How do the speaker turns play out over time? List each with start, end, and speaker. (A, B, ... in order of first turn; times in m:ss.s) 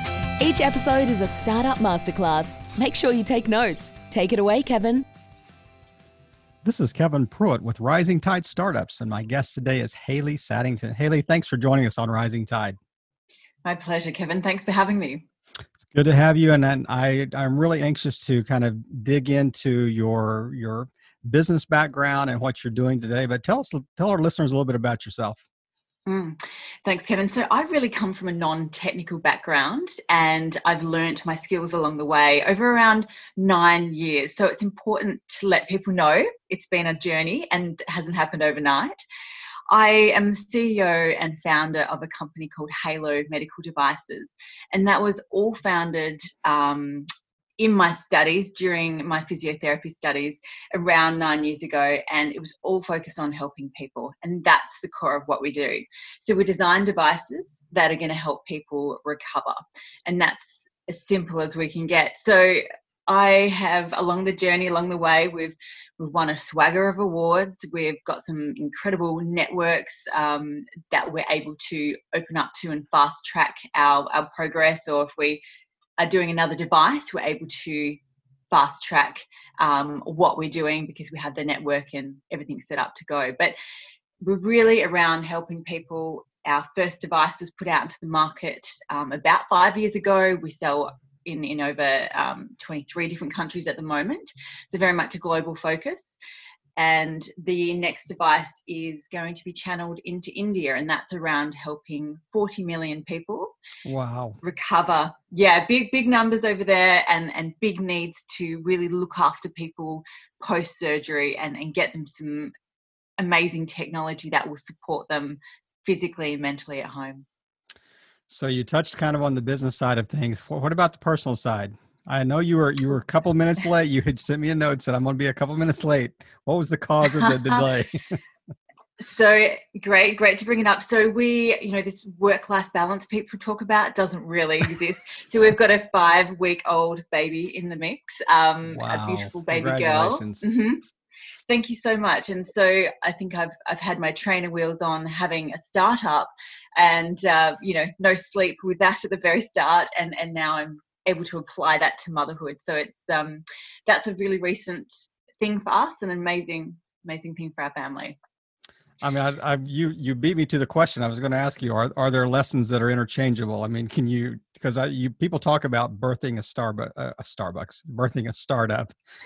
0:00.4-0:05.0 A
0:06.6-0:12.8 B
0:13.6-0:15.2 C
0:15.9-0:25.4 B
0:26.1-0:39.0 C
0:39.7-0:47.1 C
0:47.6-1:15.4 C
1:16.0-1:18.0 C
1:18.5-1:23.6 C
1:24.2-1:36.2 C
1:36.8-1:43.6 C
1:43.8-1:44.4 B
1:44.4-1:52.5 C
1:53.2-1:57.3 C
1:58.3-2:08.2 B
2:07.2-2:07.6 C
2:09.0-2:20.8 C
2:18.7-2:20.4 B
2:21.5-2:38.2 C
2:39.0-2:49.0 B